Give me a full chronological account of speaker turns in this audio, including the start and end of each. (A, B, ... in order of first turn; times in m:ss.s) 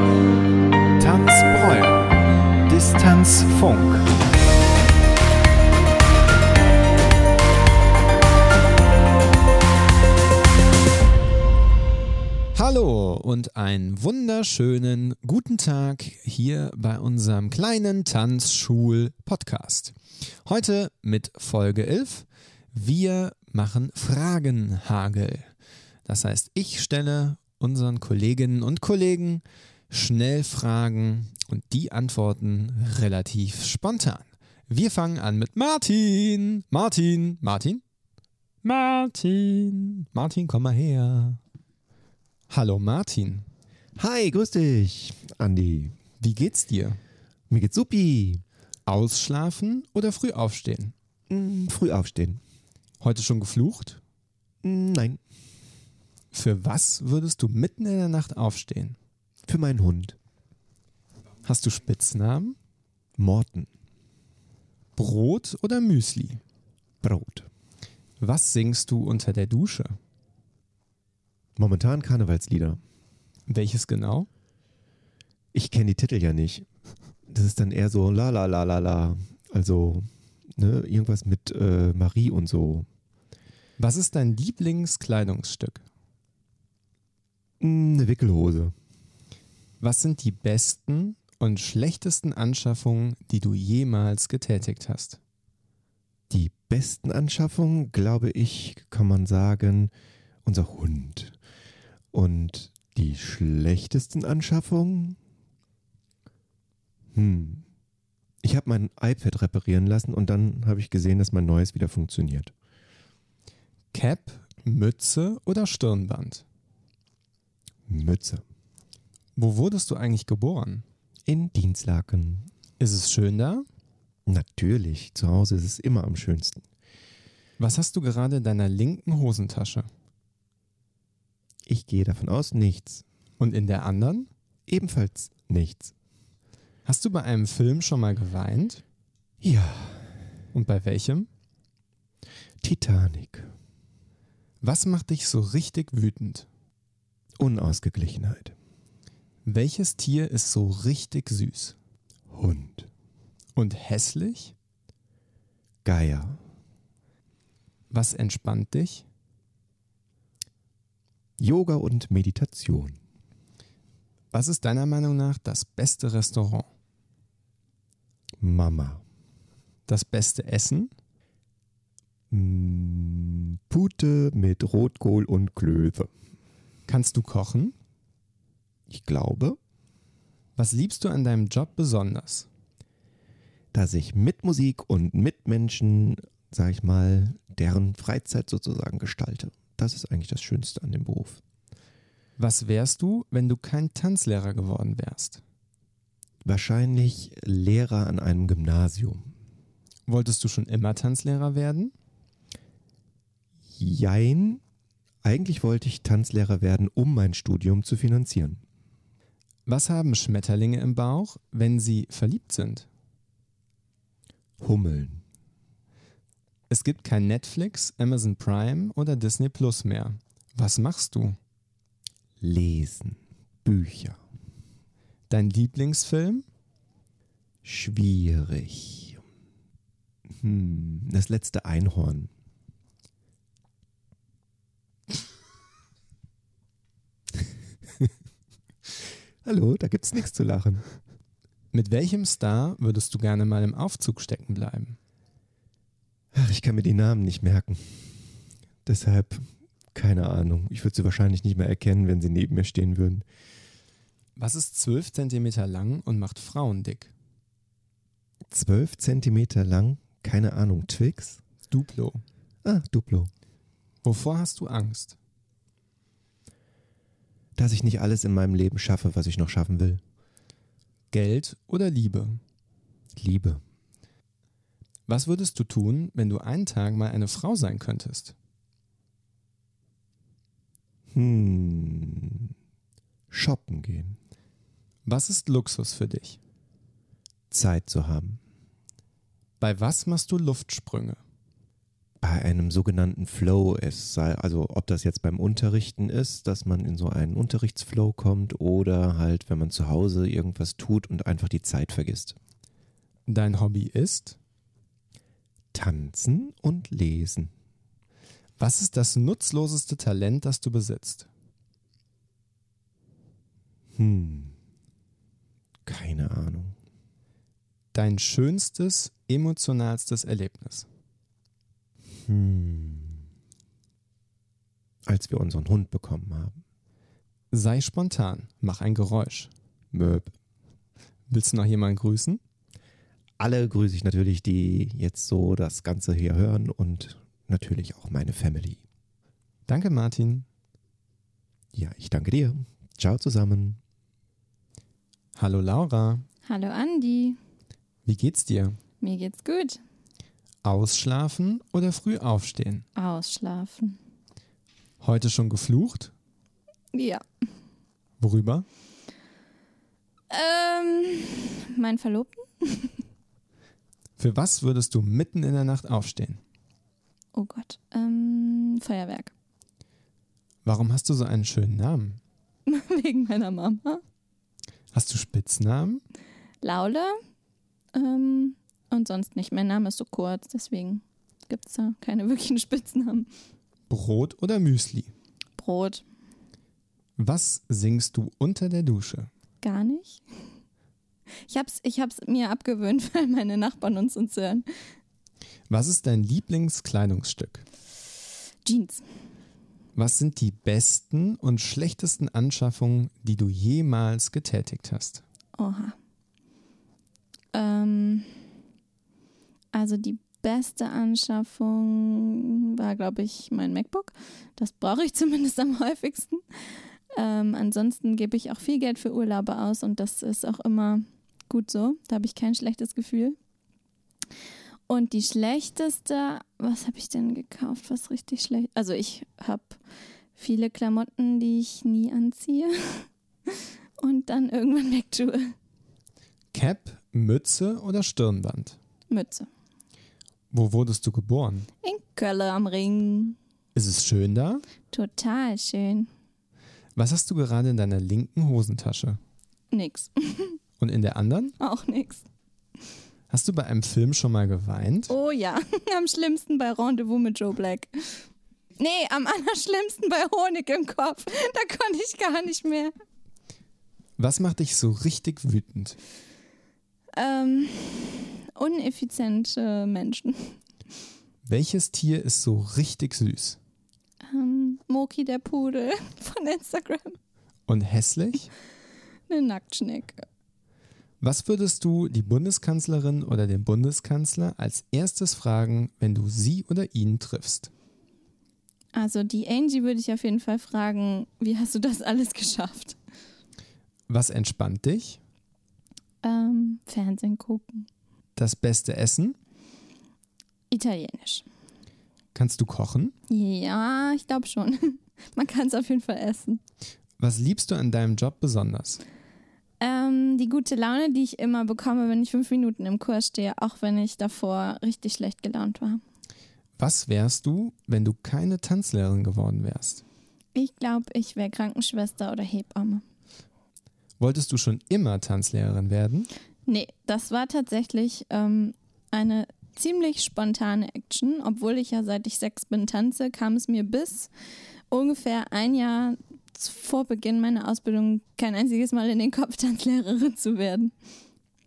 0:01.0-0:02.1 A
0:02.6-0:04.1 A
0:12.5-0:25.5 A
0:26.0-0:37.8 A
0:38.6-0:41.4 A
0:42.5-0:43.5 A
0:44.0-0:46.0 B
0:46.2-0:47.0 A
0:47.5-0:48.4 B
0:48.8-0:50.9 A
0:51.3-0:52.4 B
0:53.0-0:54.0 A
0:54.6-0:55.2 B
0:56.3-0:59.0 A
0:59.5-1:00.2 B
1:01.4-1:02.6 A
1:03.2-1:03.7 B
1:05.0-1:06.4 A
1:07.0-1:07.5 B
1:08.2-1:10.0 A
1:11.6-1:12.8 B
1:13.5-1:14.3 A
1:15.5-1:16.7 B
1:17.3-1:22.9 B
1:23.8-1:25.8 A
1:27.6-1:28.7 B
1:29.8-1:35.2 A
1:36.3-1:39.9 B
1:40.4-1:41.4 B
1:42.1-1:45.2 B
1:47.1-1:47.6 B
1:48.4-1:52.5 B
1:53.9-1:56.4 A
1:57.9-1:58.4 B
1:59.4-2:00.8 A
2:01.2-2:02.5 B
2:02.8-2:03.6 A
2:04.3-2:06.6 B
2:07.6-2:09.9 A
2:11.6-2:13.0 B
2:13.4-2:14.3 A
2:14.7-2:15.9 B
2:16.8-2:18.8 A
2:19.4-2:20.1 B
2:20.5-2:21.3 A
2:22.6-2:23.5 B
2:24.6-2:26.5 A
2:27.4-2:28.5 B
2:29.4-2:31.8 A
2:32.3-2:32.9 B
2:33.6-2:34.5 A
2:35.8-2:36.4 B
2:37.9-2:39.0 A
2:41.4-2:43.0 B
2:44.3-2:46.7 A
2:48.4-2:49.0 B
2:49.9-2:50.9 A
2:52.3-2:56.1 B
2:56.9-2:57.7 A
2:58.9-2:59.6 B
3:00.6-3:02.5 A
3:03.7-3:11.4 B
3:12.4-3:15.4 A
3:16.4-3:19.3 B
3:20.1-3:21.9 A
3:23.8-3:24.6 B
3:25.2-3:28.6 B
3:29.6-3:32.9 A
3:34.6-3:35.2 B
3:36.7-3:41.4 A
3:42.4-3:44.2 B
3:45.3-3:46.4 A
3:47.6-3:49.2 B
3:50.3-3:52.3 B
3:59.4-4:00.8 B
4:01.7-4:05.0 A
4:06.3-4:08.2 B
4:08.8-4:13.2 B
4:14.4-4:17.1 A
4:18.5-4:21.4 B
4:21.7-4:22.2 A
4:22.6-4:23.3 B
4:24.0-4:25.2 A
4:27.6-4:30.0 B
4:31.1-4:32.4 A
4:33.2-4:33.6 B
4:35.1-4:38.3 A
4:41.1-4:42.5 B
4:43.3-4:44.2 B
4:45.0-4:46.4 A
4:47.5-4:48.4 B
4:49.6-4:51.2 A
4:52.2-5:02.4 B
5:03.3-5:04.4 A
5:05.7-5:07.5 B
5:08.6-5:11.3 A
5:14.0-5:14.5 B
5:15.8-5:16.7 B
5:17.9-5:20.9 A
5:22.2-5:23.2 B
5:25.1-5:26.6 B
5:27.5-5:29.5 A
5:29.9-5:30.3 B
5:31.3-5:32.4 A
5:33.4-5:38.8 B
5:39.7-5:40.4 A
5:41.7-5:43.8 B
5:45.4-5:46.2 A
5:46.4-5:47.4 C
5:48.0-5:48.8 A
5:49.0-5:49.8 C
5:50.6-5:52.8 A
5:53.0-5:54.0 C
5:55.0-5:56.1 A
5:56.9-5:57.2 C
5:58.2-5:58.6 A
6:00.3-6:03.0 C
6:04.2-6:06.4 A
6:07.3-6:09.3 C
6:10.6-6:12.2 A
6:12.7-6:14.0 C
6:14.9-6:16.0 A
6:16.6-6:17.2 C
6:17.9-6:23.3 C
6:23.9-6:25.1 A
6:25.6-6:26.0 C
6:27.2-6:29.3 A
6:29.6-6:30.2 C
6:31.5-6:34.6 C
6:35.7-6:37.6 A
6:38.6-6:39.0 C
6:40.0-6:45.2 A
6:45.6-6:46.0 C
6:47.5-6:48.3 C
6:49.7-6:56.4 C
6:57.1-7:03.4 C
7:04.9-7:09.8 C
7:10.4-7:15.5 C
7:16.5-7:18.8 A
7:19.1-7:19.5 C
7:20.5-7:21.7 A
7:21.8-7:23.4 C
7:23.7-7:24.6 A
7:24.9-7:26.1 C
7:27.0-7:29.2 A
7:29.7-7:30.6 C
7:30.8-7:31.6 A
7:31.6-7:32.2 C
7:33.3-7:35.1 A
7:35.1-7:38.2 C
7:38.8-7:42.9 C
7:44.2-7:46.0 A
7:47.1-7:50.6 C
7:51.4-7:53.6 A
7:54.2-7:57.2 C
7:57.7-7:58.5 A
7:59.3-8:00.2 C
8:01.2-8:07.7 A
8:08.9-8:13.0 C
8:14.1-8:15.2 A
8:16.2-8:17.9 C
8:18.4-8:19.4 A
8:20.7-8:21.4 C
8:22.3-8:23.1 A
8:23.3-8:26.6 C
8:27.2-8:29.0 A
8:29.8-8:36.0 C
8:36.8-8:40.0 A
8:40.5-8:43.0 C
8:44.2-8:46.3 A
8:46.7-8:54.3 C
8:54.9-9:00.9 C